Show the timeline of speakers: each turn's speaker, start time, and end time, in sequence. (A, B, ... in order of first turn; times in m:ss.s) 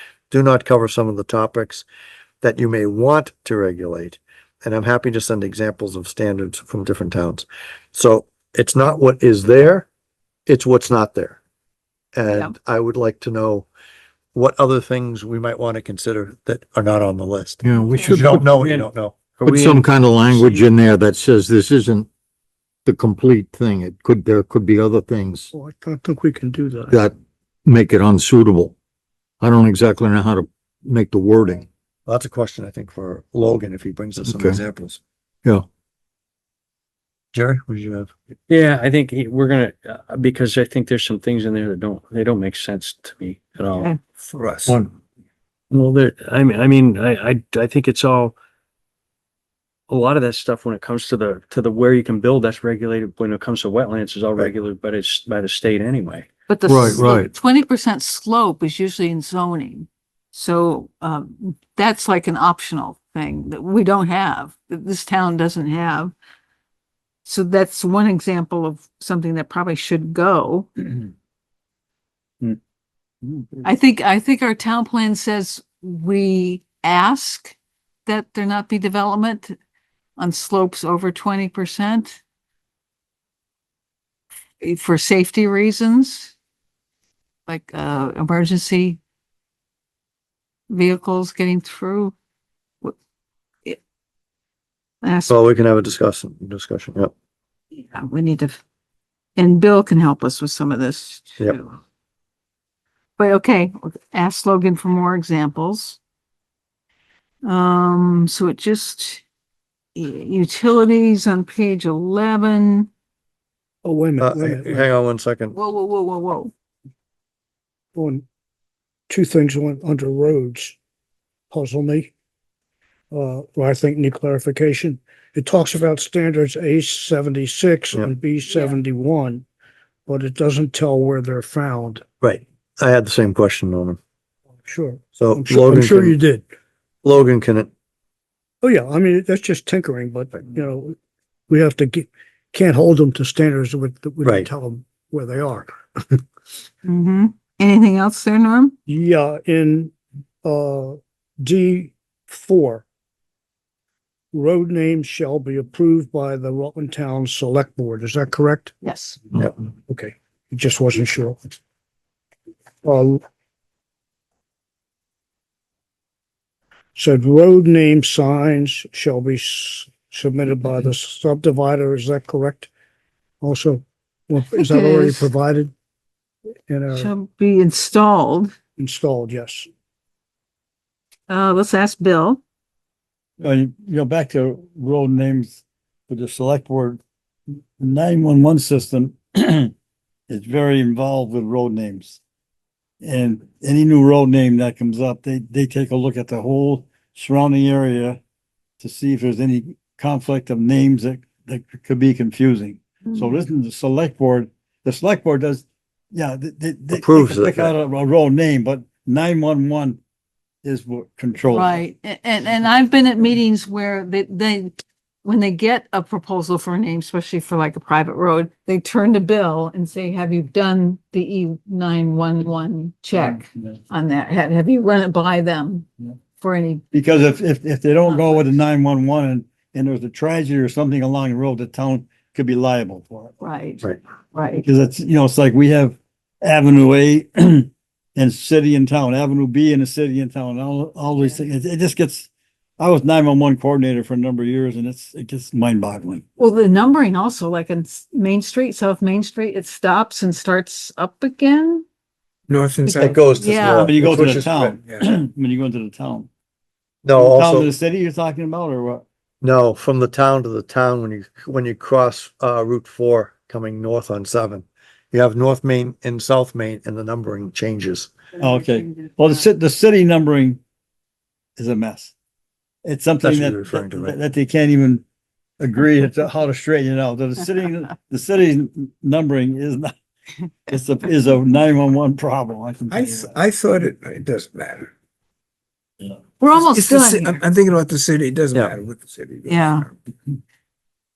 0:00.3-0:01.8 A
0:02.4-0:09.9 A
0:10.5-0:11.4 A
0:12.1-0:13.7 A
0:12.2-0:12.5 B
0:14.3-0:19.2 A
0:17.6-0:18.4 C
0:19.4-0:19.8 D
0:19.4-0:22.1 C
0:22.9-0:25.5 C
0:25.5-0:27.0 E
0:27.7-0:28.7 C
0:29.4-0:31.7 C
0:32.0-0:35.0 A
0:34.2-0:34.6 C
0:37.3-0:38.1 A
0:38.5-0:43.9 D
0:44.3-0:44.6 F
0:45.7-0:48.3 D
0:49.9-0:56.3 D
0:56.5-1:06.1 B
0:56.7-0:57.3 C
1:07.2-1:10.7 B
1:13.6-1:17.5 B
1:18.1-1:19.6 B
1:20.2-1:22.2 B
1:24.6-1:26.3 B
1:27.5-1:29.0 B
1:30.7-1:32.1 B
1:35.0-1:35.4 B
1:35.3-1:37.1 A
1:37.8-1:38.6 B
1:39.4-1:41.8 B
1:43.2-1:46.0 B
1:47.4-1:49.2 B
1:49.9-1:52.9 B
1:53.8-1:54.9 E
1:54.2-1:55.5 A
1:55.5-1:56.5 B
1:57.9-1:58.2 E
1:59.1-2:00.8 E
2:01.5-2:02.1 E
2:03.1-2:09.4 E
2:10.1-2:12.0 E
2:12.2-2:14.0 A
2:14.6-2:16.5 E
2:15.2-2:16.2 A
2:17.0-2:17.7 A
2:18.6-2:21.0 E
2:21.5-2:26.2 E
2:24.2-2:24.5 A
2:26.8-2:28.8 B
2:28.9-2:29.9 E
2:30.4-2:32.8 E
2:34.3-2:38.7 E
2:38.8-2:39.2 B
2:39.4-2:41.6 E
2:42.8-2:43.2 E
2:46.9-2:52.7 E
2:53.4-2:55.7 E
2:54.5-2:55.3 B
2:56.7-2:57.1 E
2:56.9-2:58.5 B
2:58.8-2:59.7 E
3:01.3-3:02.4 B
3:03.4-3:07.0 G
3:07.8-3:09.7 G
3:10.3-3:12.2 G
3:13.0-3:18.2 G
3:18.8-3:30.0 G
3:26.9-3:27.7 A
3:30.6-3:31.8 G
3:31.5-3:46.8 B
3:46.9-3:53.3 G
3:48.2-3:48.4 B
3:53.4-3:54.7 B
3:54.6-4:06.2 G
4:06.4-4:11.8 B
4:12.5-4:13.2 F
4:12.9-4:13.9 B
4:13.0-4:14.7 A
4:13.8-4:16.3 G
4:14.7-4:15.0 F
4:17.0-4:17.7 A
4:17.1-4:19.0 G
4:19.4-4:28.1 A
4:28.4-4:30.6 G
4:31.6-4:32.1 G
4:32.8-4:35.0 G
4:33.2-4:34.2 A
4:35.6-4:39.9 G
4:40.7-4:43.3 G
4:42.9-4:44.9 F
4:46.4-4:47.4 B
4:46.7-4:49.7 F
4:49.5-4:49.9 B